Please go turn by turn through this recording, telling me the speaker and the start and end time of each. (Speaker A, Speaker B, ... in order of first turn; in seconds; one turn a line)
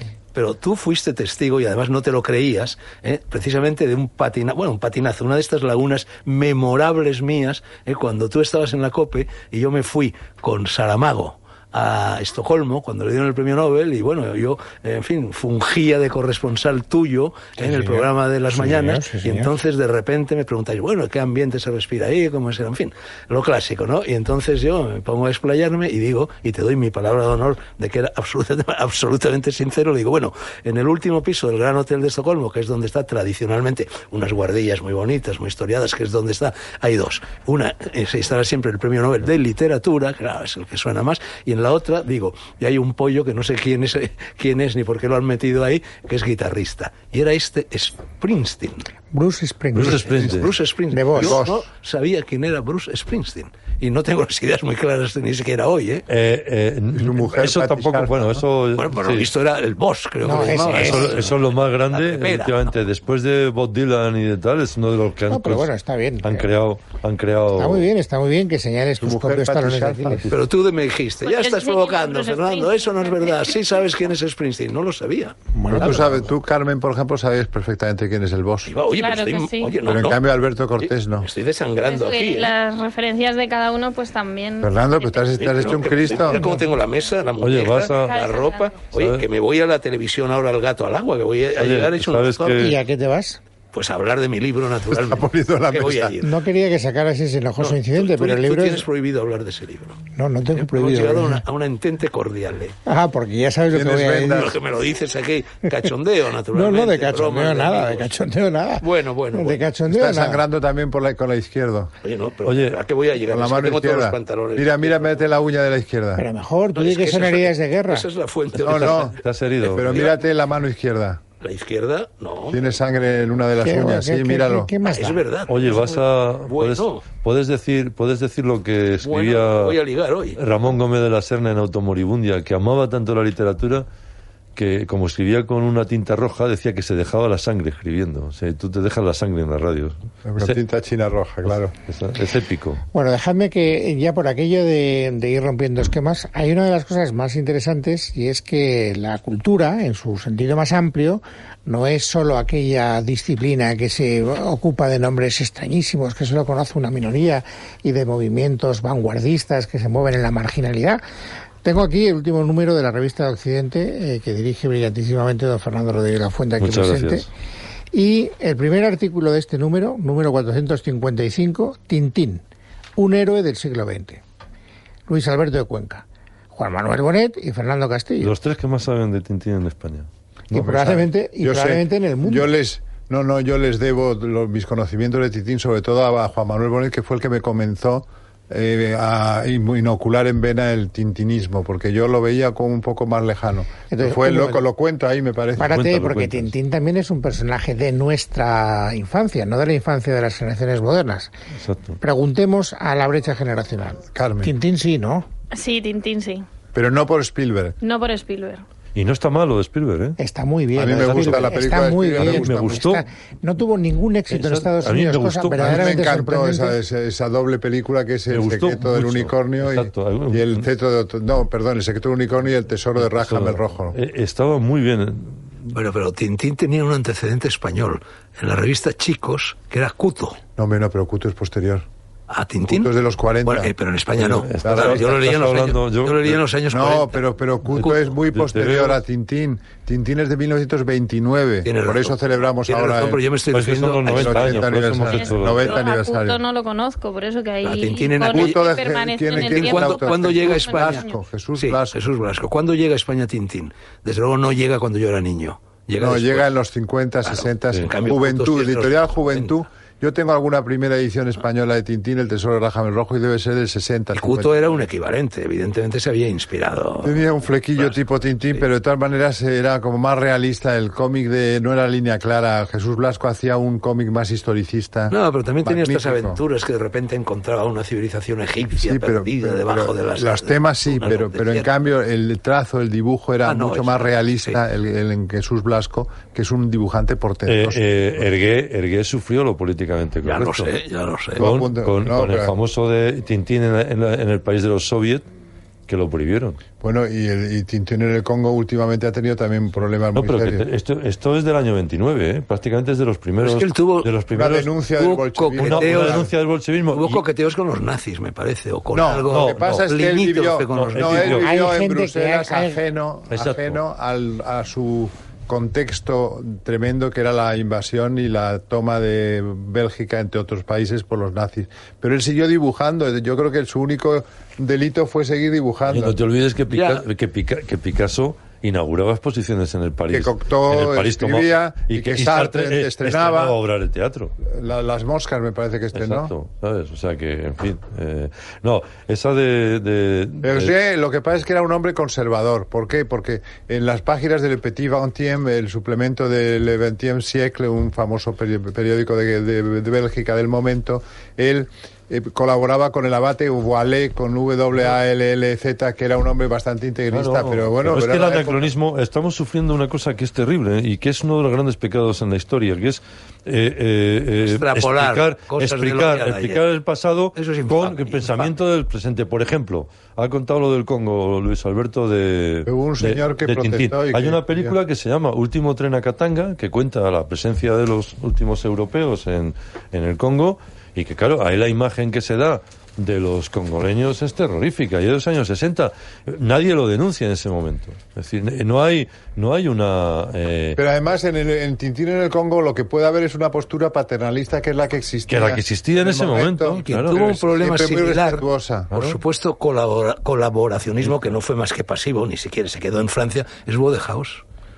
Speaker A: 0.3-48.9
Speaker B: 17.6-19.5
Speaker B: 49.1-51.4
Speaker C: 49.7-50.5
Speaker A: 49.8-56.1
Speaker D: 51.1-51.6
Speaker C: 56.1-59.3
Speaker D: 56.9-58.5
Speaker A: 58.8-62.7
Speaker B: 60.2-61.1
Speaker C: 60.7-67.9
Speaker B: 65.3-66.5
Speaker B: 67.5-70.3
Speaker D: 69.0-70.3
Speaker A: 70.3-75.4
Speaker E: 71.2-73.8
Speaker B: 75.5-76.2
Speaker D: 75.7-78.7
Speaker A: 78.7-80.2
Speaker E: 78.9-79.8
Speaker D: 79.8-81.3
Speaker A: 80.8-82.5
Speaker E: 81.8-85.3
Speaker D: 84.6-86.4
Speaker A: 85.4-92.6
Speaker C: 87.4-88.2
Speaker E: 87.6-88.9
Speaker C: 88.9-89.2
Speaker C: 91.6-92.8
Speaker B: 92.5-93.4
Speaker A: 93.7-96.3
Speaker D: 94.9-96.2
Speaker B: 96.2-98.8
Speaker A: 97.6-100.0
Speaker B: 100.1-101.4
Speaker A: 100.5-102.7
Speaker B: 102.8-104.5
Speaker D: 103.7-104.6
Speaker A: 104.3-108.1
Speaker B: 106.5-110.4
Speaker A: 108.8-109.6
Speaker D: 109.9-111.9
Speaker A: 112.0-115.2
Speaker C: 112.4-112.8
Speaker D: 113.3-116.2
Speaker B: 116.2-118.1
Speaker A: 116.8-120.2
Speaker D: 118.6-119.1
Speaker C: 118.6-120.1
Speaker D: 119.7-121.2
Speaker A: 121.4-122.6
Speaker D: 122.5-124.7
Speaker B: 123.6-125.2
Speaker A: 124.8-127.1
Speaker C: 125.5-129.8
Speaker A: 129.0-130.4
Speaker C: 130.3-133.9
Speaker C: 134.6-140.6
Speaker D: 140.2-141.7
Speaker C: 141.8-142.8
Speaker B: 142.9-161.0
Speaker B: 161.6-167.3
Speaker C: 166.6-167.3
Speaker B: 167.9-172.4
Speaker B: 173.0-174.2
Speaker B: 175.1-178.3
Speaker C: 178.2-180.1
Speaker B: 180.5-182.5
Speaker D: 180.5-195.8
Speaker B: 193.9-194.7
Speaker B: 195.6-201.3
Speaker C: 195.6-196.5
Speaker C: 201.6-202.0
Speaker B: 202.0-205.2
Speaker D: 204.1-204.5
Speaker E: 205.5-206.4
Speaker D: 206.7-207.8
Speaker E: 207.8-208.6
Speaker C: 208.9-210.2
Speaker B: 210.2-216.8
Speaker D: 210.8-212.9
Speaker C: 210.9-211.6
Speaker C: 212.1-213.0
Speaker C: 214.3-215.9
Speaker D: 215.6-223.9
Speaker C: 218.3-220.7
Speaker C: 223.0-225.7
Speaker A: 225.7-230.4
Speaker D: 230.6-231.8
Speaker A: 232.3-232.9
Speaker D: 232.7-233.7
Speaker A: 233.4-237.2
Speaker C: 234.2-236.4
Speaker D: 234.6-235.0
Speaker D: 236.7-243.2
Speaker C: 237.7-239.0
Speaker A: 241.6-244.7
Speaker C: 243.5-245.8
Speaker D: 244.1-246.4
Speaker E: 245.1-251.2
Speaker A: 247.6-248.7
Speaker D: 248.3-252.0
Speaker A: 249.3-251.0
Speaker A: 251.6-256.5
Speaker D: 256.0-264.6
Speaker A: 257.2-259.6
Speaker A: 264.1-267.2
Speaker D: 267.0-276.4
Speaker A: 275.1-281.7
Speaker D: 278.8-288.2
Speaker A: 283.4-284.6
Speaker C: 287.4-290.7
Speaker A: 290.2-291.5
Speaker D: 291.4-292.5
Speaker C: 291.4-295.2
Speaker C: 295.9-296.6
Speaker D: 296.8-300.7
Speaker C: 300.1-304.7
Speaker A: 303.4-304.1
Speaker D: 304.3-306.3
Speaker A: 305.0-306.3
Speaker C: 305.6-307.2
Speaker A: 306.9-311.4
Speaker D: 308.9-326.2
Speaker C: 309.3-309.8
Speaker C: 310.7-311.5
Speaker B: 311.4-312.8
Speaker C: 313.3-313.8
Speaker C: 325.9-334.3
Speaker A: 326.7-327.0
Speaker D: 330.1-333.6
Speaker D: 334.4-336.3
Speaker C: 335.9-340.7
Speaker D: 340.4-358.7
Speaker C: 357.1-390.8
Speaker A: 364.4-366.6
Speaker A: 367.3-368.5
Speaker D: 372.6-374.8
Speaker D: 390.8-398.9
Speaker C: 395.3-397.2
Speaker A: 396.8-404.4
Speaker C: 398.9-399.2